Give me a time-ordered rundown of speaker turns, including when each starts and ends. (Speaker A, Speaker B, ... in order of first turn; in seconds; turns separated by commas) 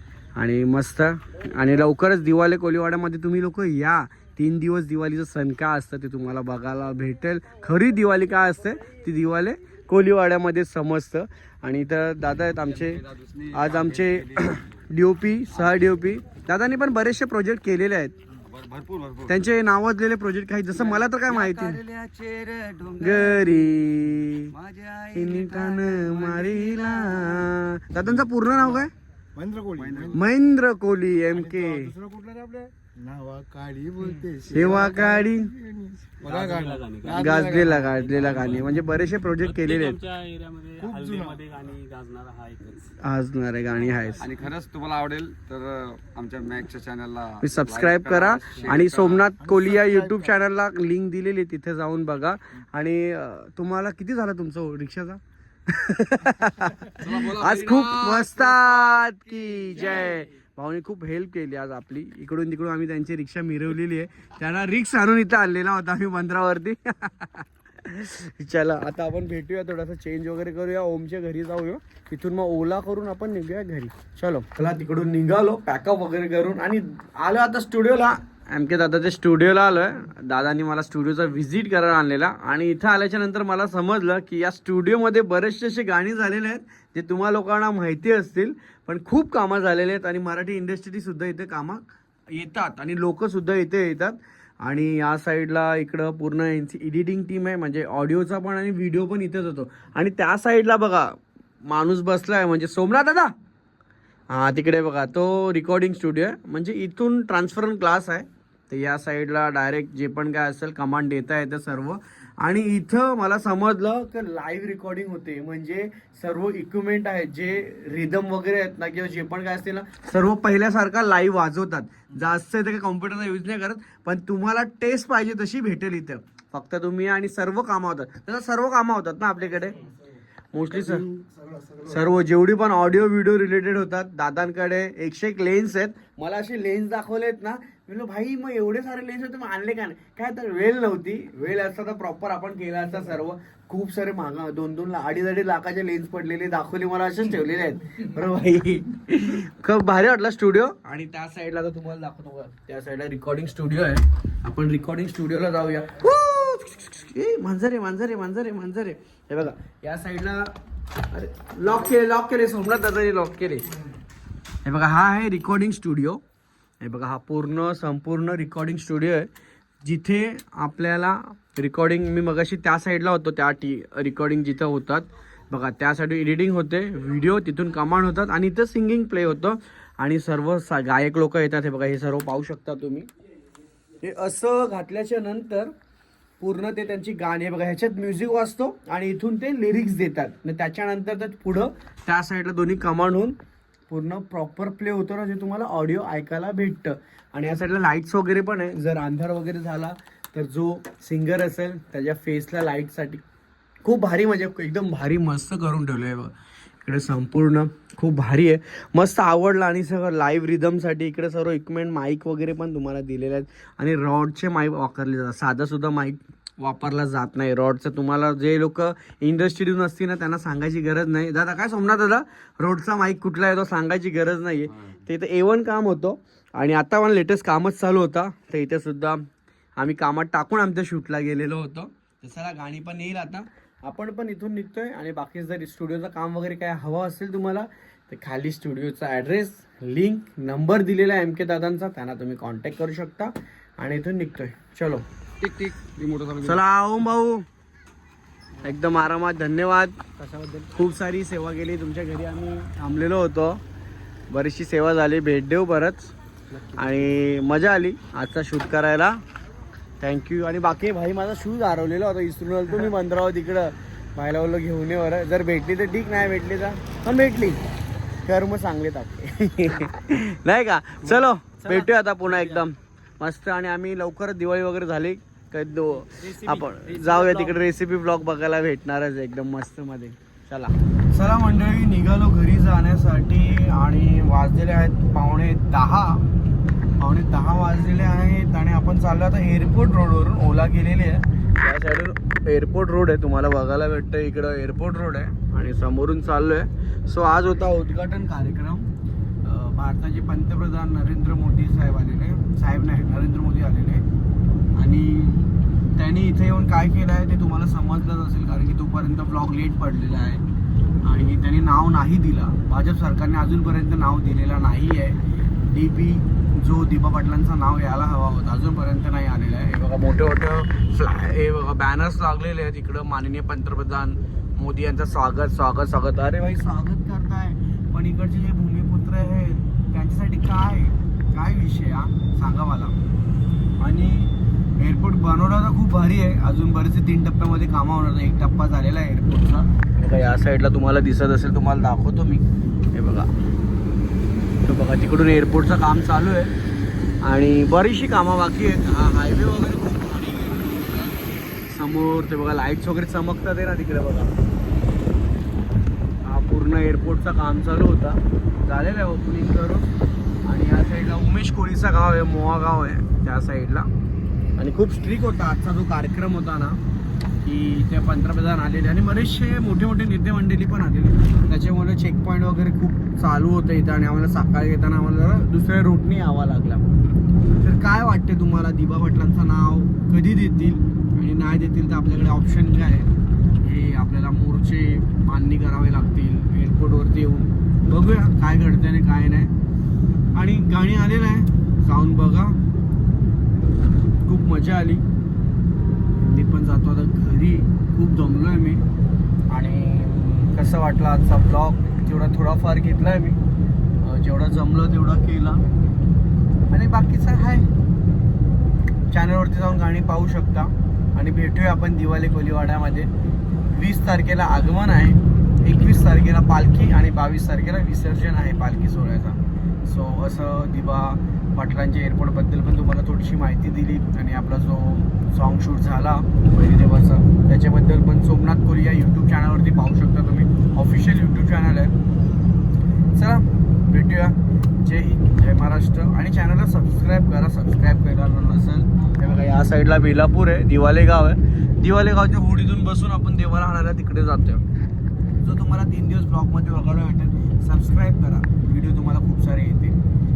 Speaker A: 0.4-13.0, Speaker B: 12.6-14.8, Speaker A: 13.5-18.2, Speaker B: 15.5-15.8, Speaker B: 18.4-19.4, Speaker A: 19.3-21.8, Speaker B: 20.7-23.9, Speaker A: 23.0-24.5, Speaker B: 24.5-27.5, Speaker A: 25.1-28.9, Speaker C: 29.4-30.2, Speaker B: 29.8-30.2, Speaker A: 30.1-31.9, Speaker C: 31.3-38.2, Speaker A: 34.5-35.5, Speaker D: 36.2-38.8, Speaker A: 37.1-40.0, Speaker D: 39.4-42.9, Speaker C: 40.8-41.4, Speaker A: 43.0-44.2, Speaker D: 43.7-44.2, Speaker B: 44.2-49.3, Speaker A: 47.4-103.3, Speaker C: 49.4-50.4, Speaker B: 57.0-58.9, Speaker A: 104.3-129.8, Speaker A: 130.5-131.1, Speaker C: 130.7-132.1, Speaker A: 131.9-160.5, Speaker A: 161.1-163.7, Speaker A: 164.7-166.2, Speaker A: 166.8-169.3, Speaker A: 169.8-183.1, Speaker A: 184.0-185.7, Speaker A: 186.4-193.4, Speaker A: 193.9-203.2, Speaker A: 203.8-229.2, Speaker B: 224.7-225.0, Speaker A: 229.8-245.1, Speaker B: 245.4-246.6, Speaker A: 246.4-247.4, Speaker A: 248.6-253.6, Speaker A: 254.3-256.1, Speaker A: 256.8-259.2, Speaker A: 260.0-267.6, Speaker A: 268.2-286.2, Speaker D: 271.6-272.6, Speaker D: 276.2-277.5, Speaker A: 287.0-298.9, Speaker A: 299.4-304.1, Speaker A: 304.8-310.4, Speaker A: 311.0-332.9, Speaker A: 333.8-343.3, Speaker A: 344.6-346.5, Speaker A: 347.2-351.2, Speaker A: 351.7-354.3, Speaker A: 356.2-359.9, Speaker A: 360.4-363.9, Speaker A: 364.6-366.8, Speaker A: 367.4-376.8, Speaker A: 377.6-383.1, Speaker A: 383.6-389.5, Speaker A: 390.4-392.6, Speaker A: 394.2-395.0, Speaker A: 396.2-398.8, Speaker A: 399.5-403.4, Speaker A: 404.0-405.6, Speaker A: 406.7-407.7, Speaker A: 409.1-413.1, Speaker A: 413.7-431.9, Speaker A: 433.1-444.6, Speaker A: 445.4-450.0